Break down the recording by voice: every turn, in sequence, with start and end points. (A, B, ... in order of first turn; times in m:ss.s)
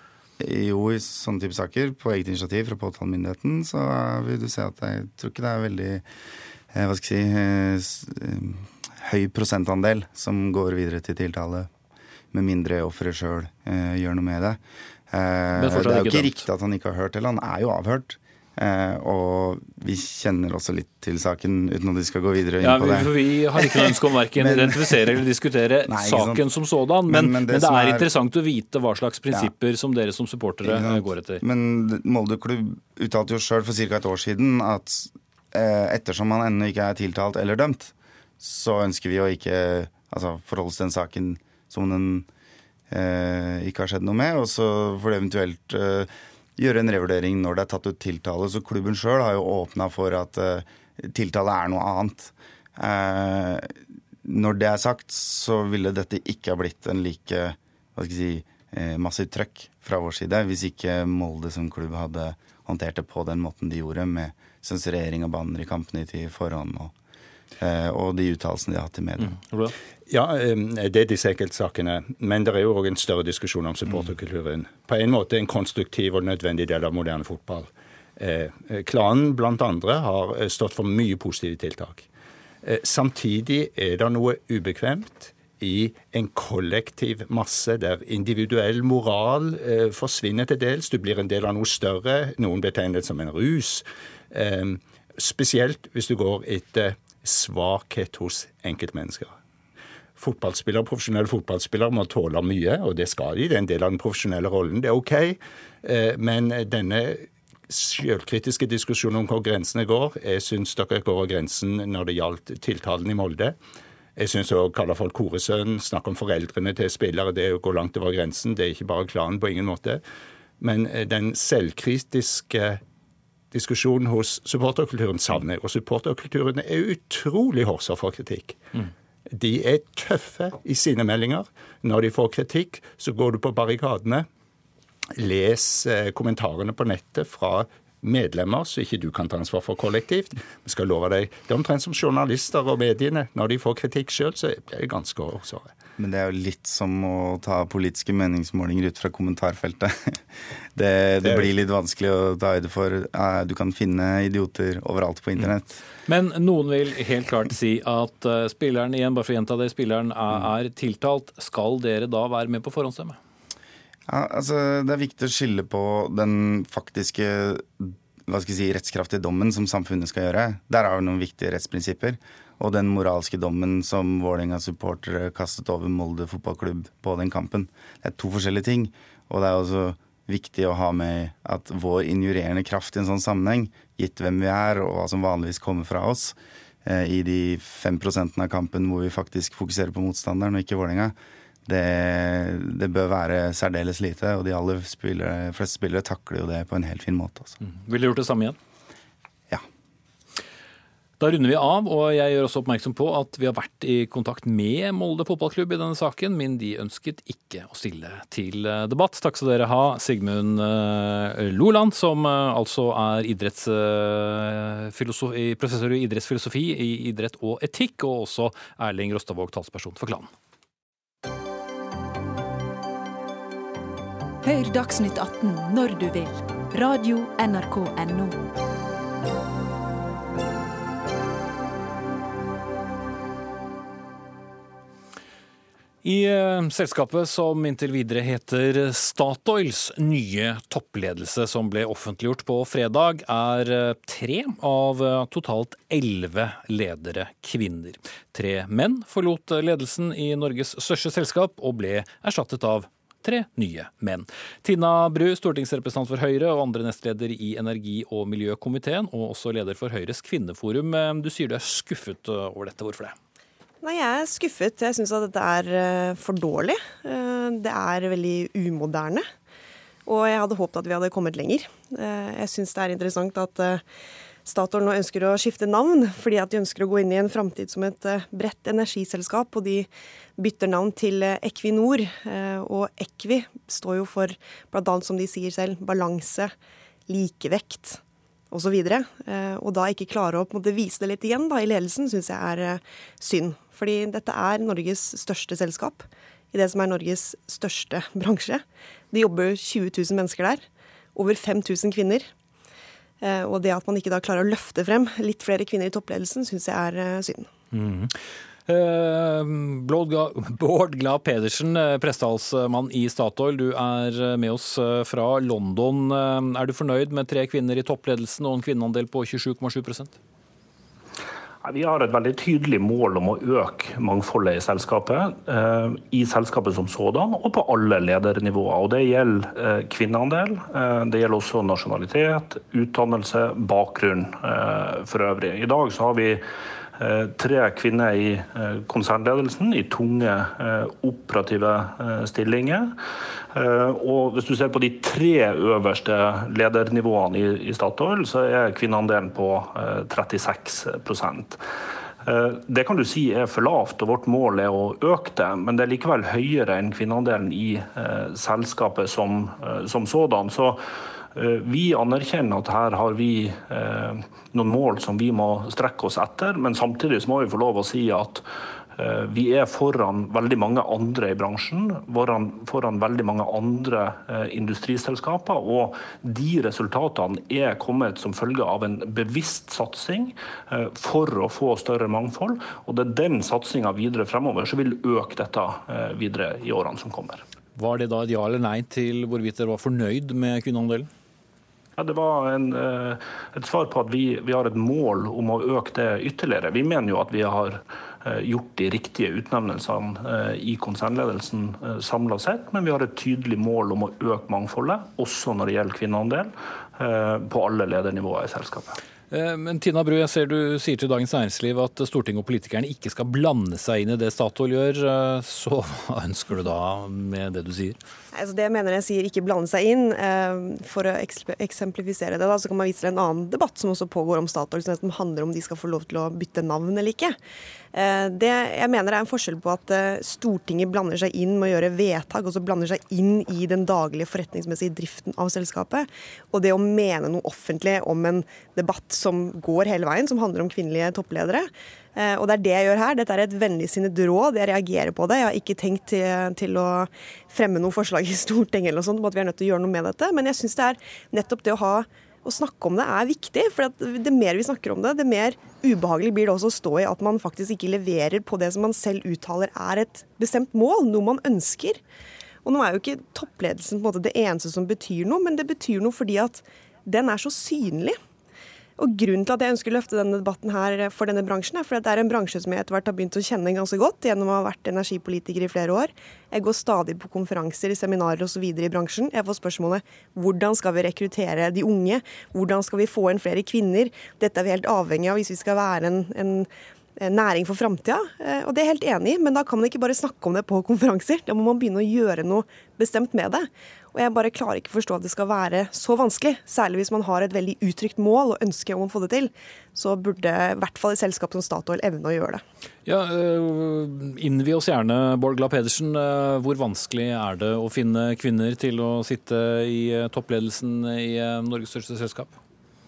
0:00.4-0:06.1 A
0:06.7-0:11.7 A
0:12.3-0:14.6 A
0:15.1-0:25.1 A
0:15.6-0:16.4 B
0:22.6-0:31.4 B
0:25.9-0:26.5 A
0:27.1-0:28.1 A
0:30.6-0:42.3 A
0:42.9-0:53.7 A
0:54.2-1:06.9 A
1:07.6-1:09.4 A
1:09.2-1:09.7 B
1:10.1-1:22.1 C
1:22.6-1:39.4 C
1:40.2-1:53.6 C
1:54.2-2:00.0 C
2:00.6-2:02.8 C
2:03.5-2:08.6 C
2:09.3-2:14.3 C
2:15.2-2:25.8 C
2:26.0-2:30.2 A
2:30.8-2:35.8 A
2:31.2-2:31.5 C
2:36.1-2:43.2 B
2:44.1-3:17.6 A
3:17.7-3:18.6 B
3:21.2-3:40.3 B
3:44.4-3:48.4 D
3:56.0-4:23.2 B
4:23.8-4:29.3 E
4:30.1-4:33.8 E
4:34.5-4:46.5 E
4:47.1-5:02.3 E
5:03.2-5:07.5 E
5:07.7-5:08.2 B
5:08.7-5:20.2 B
5:21.6-5:36.4 F
5:37.0-5:43.0 F
5:43.5-5:51.6 F
5:52.2-6:00.8 F
6:01.3-6:27.4 F
6:27.8-6:31.1 B
6:32.0-6:49.0 F
6:49.3-6:58.0 B
6:58.3-7:07.4 E
7:07.9-7:42.0 E
7:42.6-7:48.2 E
7:49.0-8:22.6 E
8:23.1-8:32.6 B